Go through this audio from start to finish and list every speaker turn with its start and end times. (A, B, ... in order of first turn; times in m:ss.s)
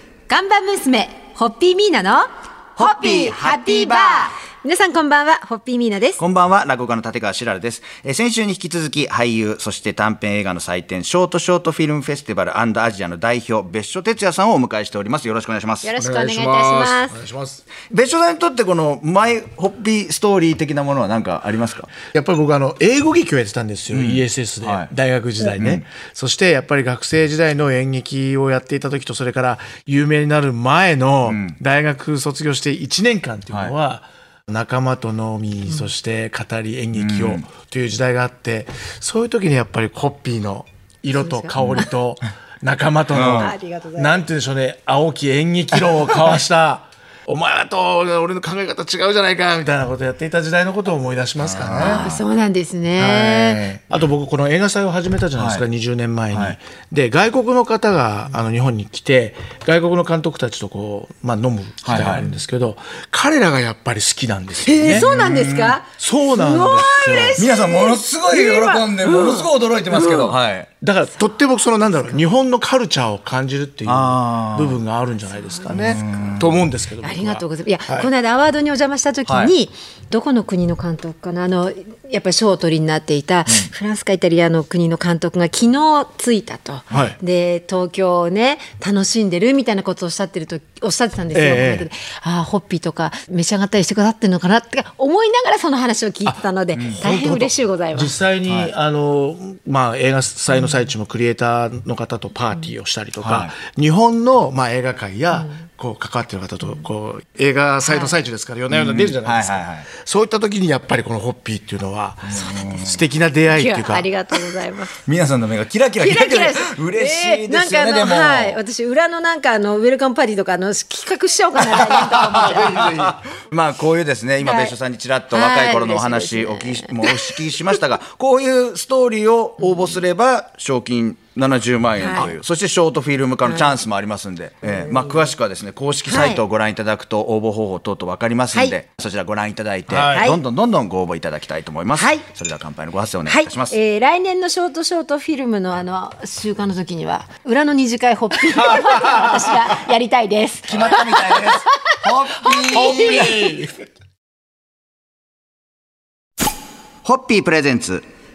0:00.3-0:06.2 A
0:06.2-0:15.9 B
0:15.8-0:17.2 A
0:16.0-0:17.6 C
0:17.9-0:21.9 B
0:22.1-0:52.1 C
0:23.9-0:24.9 B
0:25.6-0:25.8 B
0:31.3-0:31.6 B
0:37.0-0:37.5 B
0:41.1-0:41.9 A
0:41.6-0:41.9 B
0:43.1-0:43.6 B
0:43.4-0:44.3 A
0:51.4-0:52.2 B
0:51.8-0:53.6 A
0:53.0-1:05.1 C
0:53.5-0:54.0 B
0:55.4-0:55.7 B
0:56.3-0:56.6 B
1:01.8-1:02.2 B
1:01.9-1:02.4 A
1:04.6-1:10.4 A
1:04.8-1:05.8 B
1:06.0-1:07.4 C
1:07.2-1:10.7 B
1:10.8-1:18.1 C
1:13.9-1:14.8 B
1:15.4-1:15.8 A
1:15.7-1:16.6 B
1:17.0-1:38.1 A
1:19.3-1:19.5 B
1:26.9-1:27.2 C
1:31.3-1:31.9 C
1:36.2-1:54.1 C
1:36.8-1:37.0 B
1:38.4-1:38.7 B
1:40.5-1:40.9 A
1:43.2-1:43.5 B
1:47.8-1:48.2 A
1:48.7-1:49.9 B
1:52.2-1:53.0 B
1:53.5-1:55.0 A
1:55.0-1:58.6 B
1:56.0-2:02.9 A
2:01.9-2:03.2 C
2:02.7-2:23.8 B
2:04.4-2:04.8 A
2:05.3-2:07.3 A
2:12.0-2:12.3 A
2:13.4-2:13.8 A
2:14.6-2:15.4 A
2:16.1-2:16.4 A
2:19.9-2:20.3 C
2:20.1-2:20.4 A
2:22.0-2:22.2 A
2:23.3-2:31.7 A
2:28.5-2:29.4 C
2:30.7-2:33.5 B
2:32.4-2:33.6 A
2:32.7-2:33.7 C
2:37.0-2:38.0 B